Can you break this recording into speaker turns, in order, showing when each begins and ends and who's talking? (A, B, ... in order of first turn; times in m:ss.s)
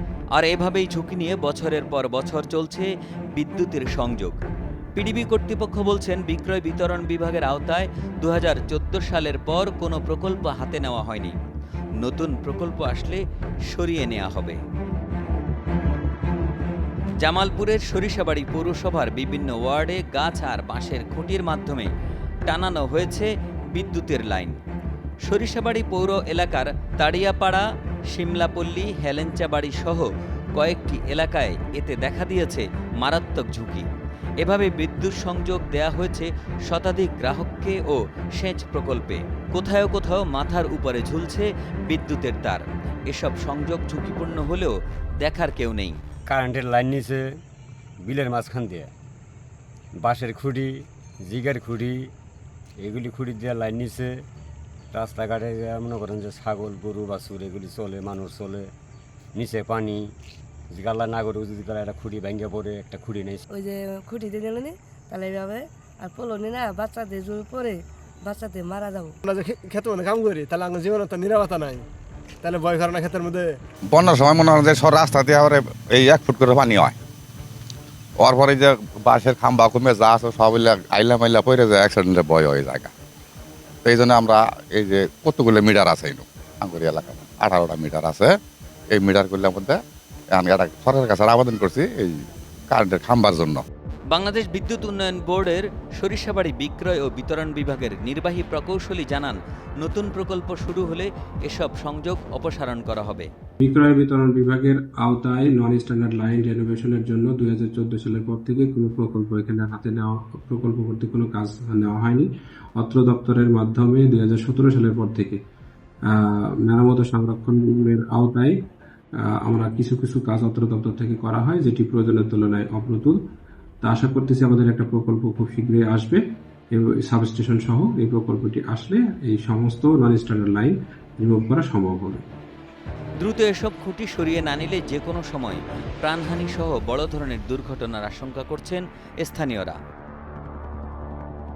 0:00.3-0:04.4 A
0:05.0-0:11.4 A
0:12.0-0:14.6 A
0:17.2-0:21.9 A
0:22.5-0:24.6 A
0:25.2-0:33.9 A
0:34.4-0:46.0 A
0:46.3-0:47.4 B
0:48.0-0:48.9 B
0:50.0-0:52.1 B
0:52.8-0:54.3 B
0:54.9-0:58.7 B
0:59.4-1:00.2 B
1:00.7-1:03.4 B
1:03.5-1:09.1 C
1:09.3-1:11.9 D
1:12.4-1:13.6 D
1:13.9-1:17.0 E
1:18.2-1:22.9 E
1:23.8-1:28.3 E
1:28.9-1:29.8 E
1:30.3-1:33.6 E
1:34.1-1:43.3 A
1:43.6-1:55.4 F
1:56.1-1:58.6 F
1:59.2-2:03.2 F
2:03.8-2:12.3 F
2:13.2-2:19.8 A